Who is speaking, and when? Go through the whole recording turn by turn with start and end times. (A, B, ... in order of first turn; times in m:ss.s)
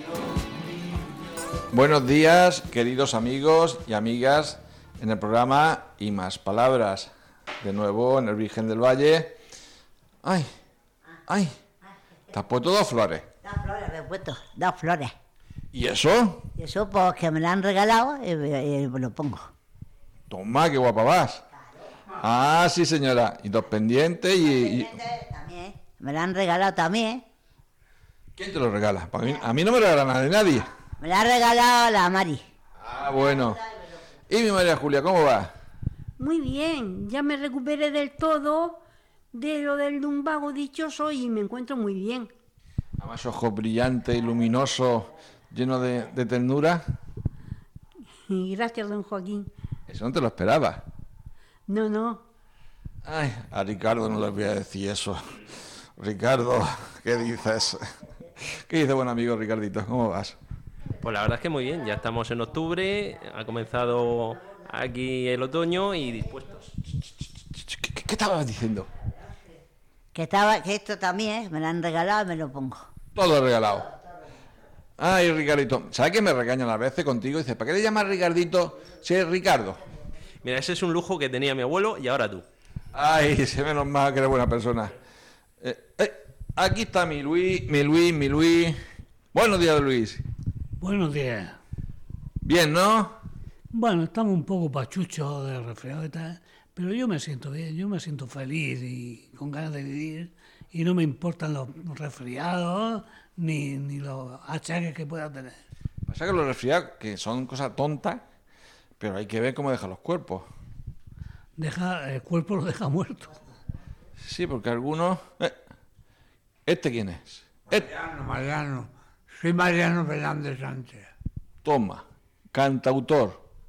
0:01.7-0:09.3 A
0:10.2-0:10.5 A
0:11.3-0:11.5 A
0:12.3-0:13.3 A
0:13.4-0:15.1 B
0:15.7-0:16.4 A
0:16.5-0:19.5 B
0:20.3-0:21.4 A
0:22.2-0:25.0 A
0:24.4-0:27.2 B
0:28.4-0:30.7 A
0:31.0-0:32.4 B
0:32.8-0:33.6 A
0:33.2-0:33.8 B
0:34.3-0:35.5 A
0:36.2-0:38.8 C
0:39.3-0:42.3 C
0:43.0-0:46.8 A
0:48.3-0:49.5 C
0:49.9-0:50.8 A
0:51.7-0:52.2 C
0:53.0-0:55.4 A
0:56.0-0:57.8 A
0:58.4-1:00.4 A
1:01.0-1:06.7 D
1:07.5-1:08.9 A
1:10.1-1:12.8 B
1:13.1-1:13.9 A
1:15.0-1:19.8 A
1:20.4-1:22.4 D
1:22.9-1:24.9 A
1:25.6-1:28.8 A
1:29.3-1:30.2 A
1:30.8-1:31.6 E
1:32.4-1:33.2 A
1:33.7-1:45.6 E
1:46.1-1:48.2 A
1:49.0-1:50.4 A
1:51.6-1:53.4 E
1:54.2-1:55.5 A
1:56.6-1:57.8 A
1:57.7-2:01.1 F
2:01.6-2:03.4 A